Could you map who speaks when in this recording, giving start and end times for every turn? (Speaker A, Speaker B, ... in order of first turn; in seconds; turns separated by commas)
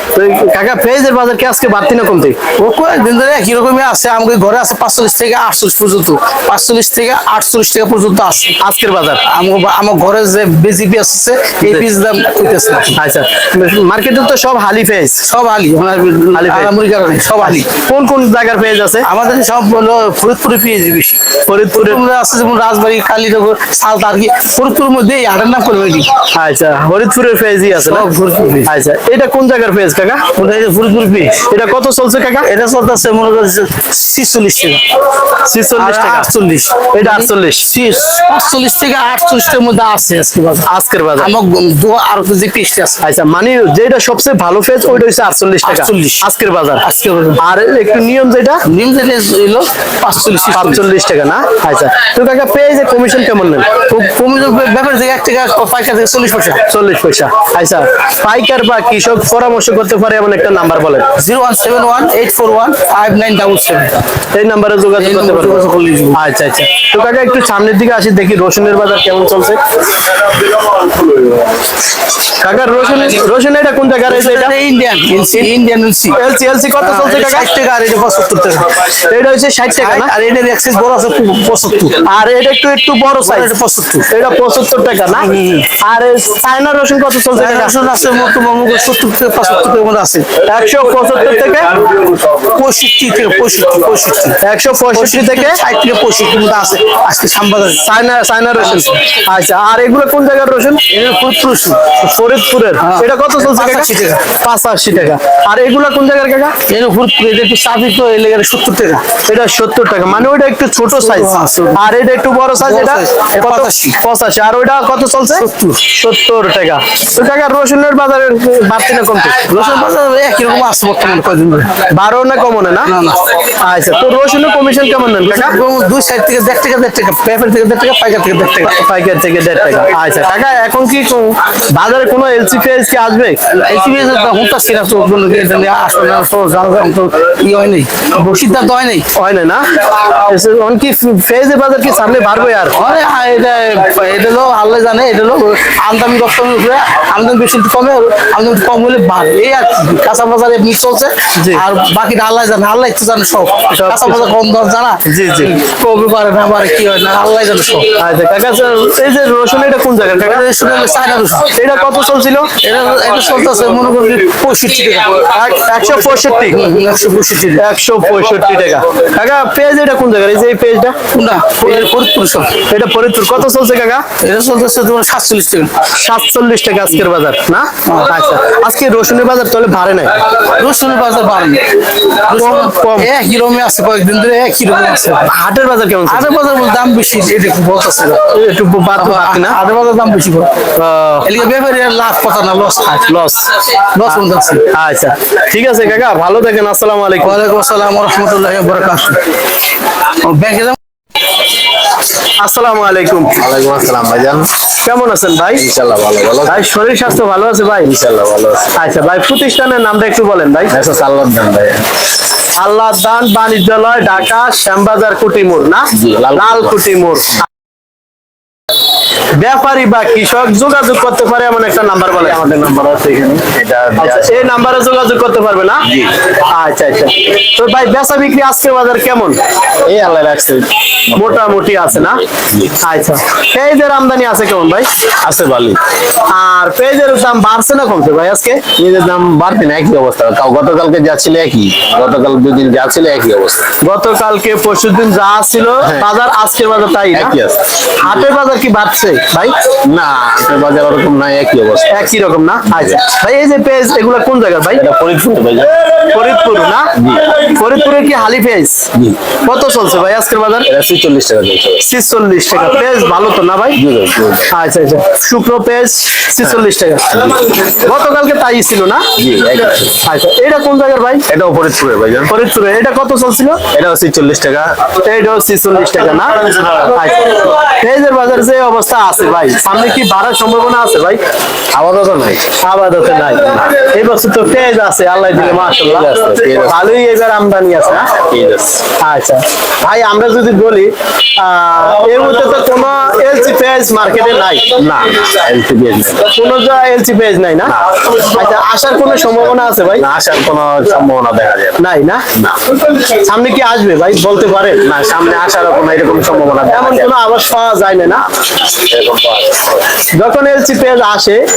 Speaker A: 0.1-2.4, Speaker B: 2.5-8.5, Speaker A: 8.6-9.2, Speaker B: 9.2-12.9, Speaker A: 11.6-11.9, Speaker A: 12.9-15.2, Speaker B: 15.2-17.7, Speaker A: 16.3-16.7, Speaker A: 17.4-19.1, Speaker B: 19.0-26.1, Speaker A: 21.4-22.0, Speaker A: 26.3-28.1, Speaker B: 27.7-28.7, Speaker A: 28.6-30.2, Speaker B: 30.3-31.4, Speaker A: 31.4-32.5, Speaker B: 32.4-34.8, Speaker A: 35.4-36.3, Speaker B: 35.8-43.0, Speaker A: 36.9-37.7, Speaker A: 40.6-41.3, Speaker A: 43.0-46.8, Speaker B: 45.6-46.3, Speaker B: 46.8-47.4, Speaker A: 47.4-48.6, Speaker B: 48.7-50.8, Speaker A: 50.5-53.8, Speaker B: 53.8-56.6, Speaker A: 56.7-61.1, Speaker B: 61.1-64.0, Speaker A: 64.3-69.6, Speaker B: 65.0-66.2, Speaker A: 72.4-74.5, Speaker B: 74.1-76.2, Speaker A: 76.1-77.5, Speaker B: 76.8-78.8, Speaker A: 79.0-80.1, Speaker B: 79.7-82.0, Speaker A: 82.0-83.5, Speaker B: 83.2-84.1, Speaker A: 84.1-85.3, Speaker B: 85.2-85.7, Speaker A: 85.8-87.7, Speaker B: 87.3-90.3, Speaker A: 90.4-91.8, Speaker B: 92.3-94.4, Speaker A: 94.4-95.6, Speaker B: 94.9-97.9, Speaker A: 97.8-100.8, Speaker B: 98.6-98.9, Speaker B: 100.9-102.0, Speaker A: 101.9-106.5, Speaker B: 102.8-104.2, Speaker B: 106.7-109.0, Speaker A: 109.2-119.4, Speaker B: 110.9-111.9, Speaker B: 112.6-114.0, Speaker B: 115.3-115.8, Speaker B: 119.4-121.9, Speaker A: 121.9-125.5, Speaker B: 122.8-123.3, Speaker B: 125.2-128.8, Speaker A: 128.7-133.4, Speaker B: 133.5-139.1, Speaker A: 139.1-142.8, Speaker B: 142.7-157.9, Speaker A: 151.3-151.6, Speaker A: 153.7-154.3, Speaker A: 155.1-155.5, Speaker A: 158.0-160.5, Speaker B: 160.1-161.5, Speaker A: 161.5-162.5, Speaker B: 162.6-165.3, Speaker A: 165.3-166.6, Speaker B: 166.5-167.6, Speaker A: 167.6-171.0, Speaker B: 171.1-172.6, Speaker A: 171.6-171.9, Speaker A: 172.6-174.0, Speaker B: 174.2-175.8, Speaker A: 175.9-180.2, Speaker B: 177.8-178.1, Speaker B: 180.4-185.3, Speaker A: 182.3-183.1, Speaker A: 185.2-186.4, Speaker B: 186.1-188.3, Speaker A: 188.3-189.6, Speaker B: 188.9-190.7, Speaker A: 190.7-191.3, Speaker B: 191.2-193.1, Speaker A: 193.1-193.5, Speaker B: 193.7-194.7, Speaker A: 194.1-197.4, Speaker B: 197.2-199.3, Speaker B: 200.2-200.8, Speaker A: 202.4-203.4, Speaker C: 203.4-204.5, Speaker A: 204.8-205.6, Speaker C: 205.6-206.6, Speaker A: 206.5-207.9, Speaker C: 207.9-208.8, Speaker A: 208.8-210.7, Speaker C: 210.7-211.8, Speaker A: 212.6-217.3, Speaker C: 216.0-216.8, Speaker A: 219.4-222.4, Speaker C: 222.2-224.5, Speaker A: 224.0-225.8, Speaker A: 226.4-229.4, Speaker C: 229.8-232.7, Speaker A: 231.1-232.2, Speaker A: 232.8-234.9, Speaker C: 235.2-235.8, Speaker A: 236.3-238.6, Speaker C: 238.8-243.7, Speaker A: 243.8-247.3, Speaker C: 247.1-248.1, Speaker A: 248.0-249.5, Speaker C: 249.8-252.1, Speaker A: 251.9-254.8, Speaker C: 252.7-253.0, Speaker C: 254.8-255.7, Speaker A: 256.0-258.9, Speaker C: 257.0-257.3, Speaker A: 259.4-260.7, Speaker C: 260.7-261.8, Speaker A: 261.8-263.8, Speaker C: 263.8-264.5, Speaker A: 264.5-267.1, Speaker A: 267.6-269.0, Speaker C: 269.2-269.9, Speaker A: 270.0-271.2, Speaker C: 271.3-272.3, Speaker A: 272.3-273.6, Speaker C: 273.7-274.8, Speaker A: 275.0-281.2, Speaker C: 281.7-282.5, Speaker A: 282.6-288.1, Speaker C: 285.3-286.8, Speaker C: 288.1-288.8, Speaker A: 289.0-294.7, Speaker C: 294.8-296.3, Speaker A: 296.2-300.1, Speaker C: 297.6-297.9, Speaker C: 299.9-301.8, Speaker A: 301.8-302.2, Speaker A: 303.0-304.8, Speaker C: 304.8-307.1, Speaker A: 306.7-308.2, Speaker C: 308.6-309.9, Speaker A: 310.1-311.4